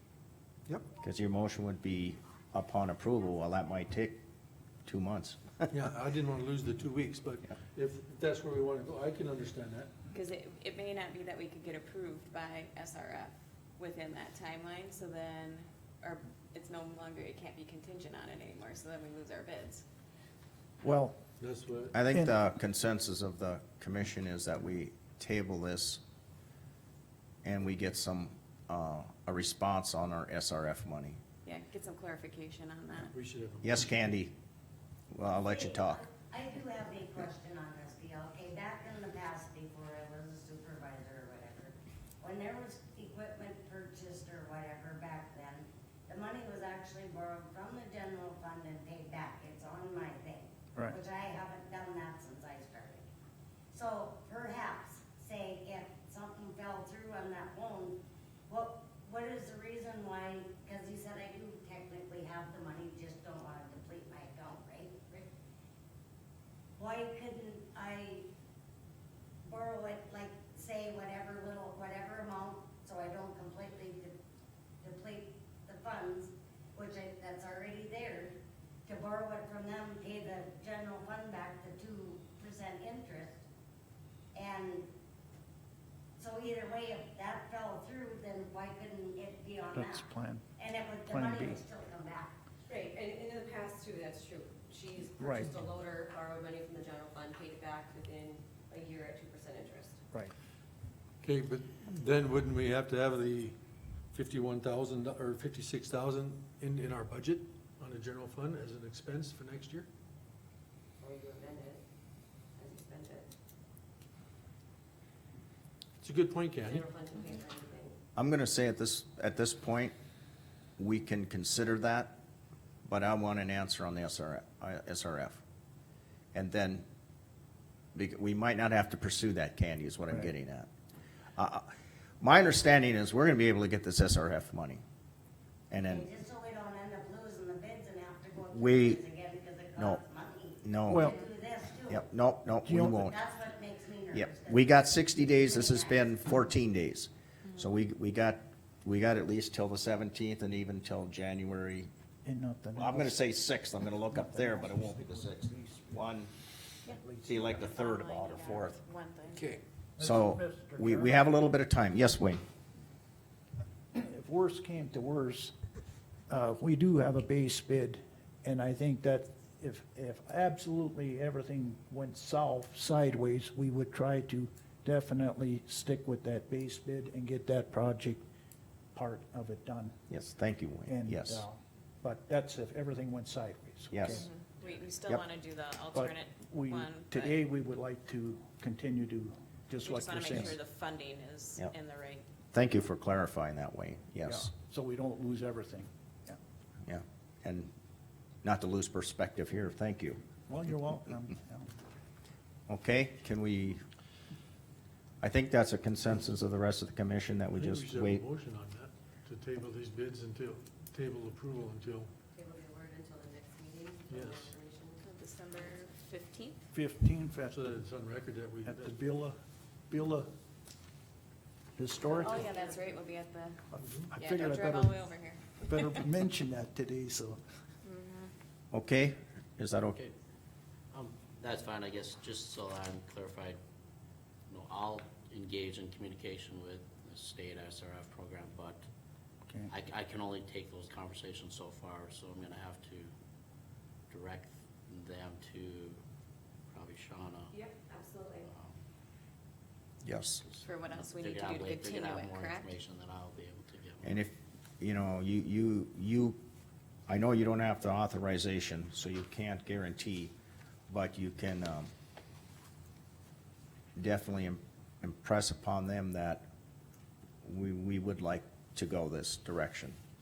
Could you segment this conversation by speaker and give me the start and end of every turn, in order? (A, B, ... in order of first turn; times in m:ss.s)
0:01.0-0:04.2 A
0:04.9-0:05.7 A
0:05.7-0:09.9 B
0:10.1-0:19.8 C
0:20.8-0:21.2 D
0:21.4-0:21.9 B
0:21.9-0:26.0 A
0:22.1-0:22.4 D
0:27.4-0:31.2 A
0:31.4-0:33.1 C
0:33.1-0:33.9 B
0:33.6-0:34.3 A
0:35.1-0:36.0 A
0:35.4-0:53.0 E
0:53.7-0:58.0 E
0:58.5-1:05.3 E
1:06.8-1:08.2 E
1:09.4-1:14.2 E
1:14.8-1:18.4 E
1:18.9-1:23.4 E
1:24.4-1:24.9 E
1:26.2-1:32.3 E
1:29.7-1:30.5 D
1:31.0-1:31.6 D
1:32.7-1:40.0 F
1:35.2-1:35.6 D
1:41.2-1:43.6 B
1:44.1-1:49.9 B
1:51.0-1:51.8 F
1:52.6-1:53.3 F
1:56.0-1:56.9 B
1:56.5-1:58.0 F
1:58.2-2:00.0 A
2:00.8-2:02.2 A
2:02.8-2:05.4 A
2:06.3-2:06.8 A
2:08.0-2:10.7 A
2:11.4-2:11.7 A
2:12.2-2:14.8 A
2:15.7-2:16.1 A
2:15.8-2:22.0 E
2:18.5-2:19.0 A
2:20.6-2:21.1 A
2:20.9-2:21.2 D
2:21.9-2:23.2 A
2:22.6-2:23.1 D
2:23.0-2:26.2 E
2:24.1-2:31.9 A
2:27.4-2:27.7 C
2:32.2-2:33.2 D
2:32.8-2:36.3 A
2:34.1-2:36.0 D
2:36.9-2:37.7 D
2:37.2-2:38.8 A
2:37.6-2:39.5 C
2:40.0-2:41.3 D
2:40.0-2:42.4 A
2:44.0-2:45.6 D
2:46.3-2:58.2 D
2:58.9-3:00.0 D
3:00.1-3:01.4 A
3:00.9-3:04.3 D
3:03.9-3:04.2 A
3:04.1-3:07.4 C
3:05.9-3:10.6 D
3:09.8-3:12.3 C
3:12.5-3:14.5 A
3:14.2-3:16.4 D
3:16.9-3:17.7 A
3:18.4-3:20.2 A
3:20.5-3:21.7 D
3:22.7-3:23.8 A
3:25.2-3:28.2 A
3:27.5-3:32.1 B
3:32.3-3:35.0 F
3:34.1-3:34.5 B
3:35.0-3:36.7 C
3:36.7-3:37.7 D
3:37.5-3:39.0 B
3:38.6-3:39.4 D
3:39.9-3:40.3 D
3:41.8-3:42.5 D
3:42.0-3:43.0 F
3:42.2-3:43.6 C
3:43.7-3:45.0 D
3:43.8-3:44.1 B
3:44.2-3:46.0 C
3:45.6-3:47.4 D
3:47.8-3:48.3 C
3:48.7-3:50.0 A
3:50.9-3:53.6 G
3:54.5-3:58.8 G
3:59.7-4:03.1 G
4:04.1-4:06.0 G
4:06.7-4:07.6 G
4:07.5-4:08.5 F
4:08.4-4:08.7 G
4:10.0-4:10.4 A
4:10.4-4:14.2 G
4:10.6-4:12.8 C
4:14.0-4:16.4 A
4:17.1-4:20.3 A
4:20.9-4:21.9 A
4:24.0-4:26.5 A
4:27.4-4:30.0 A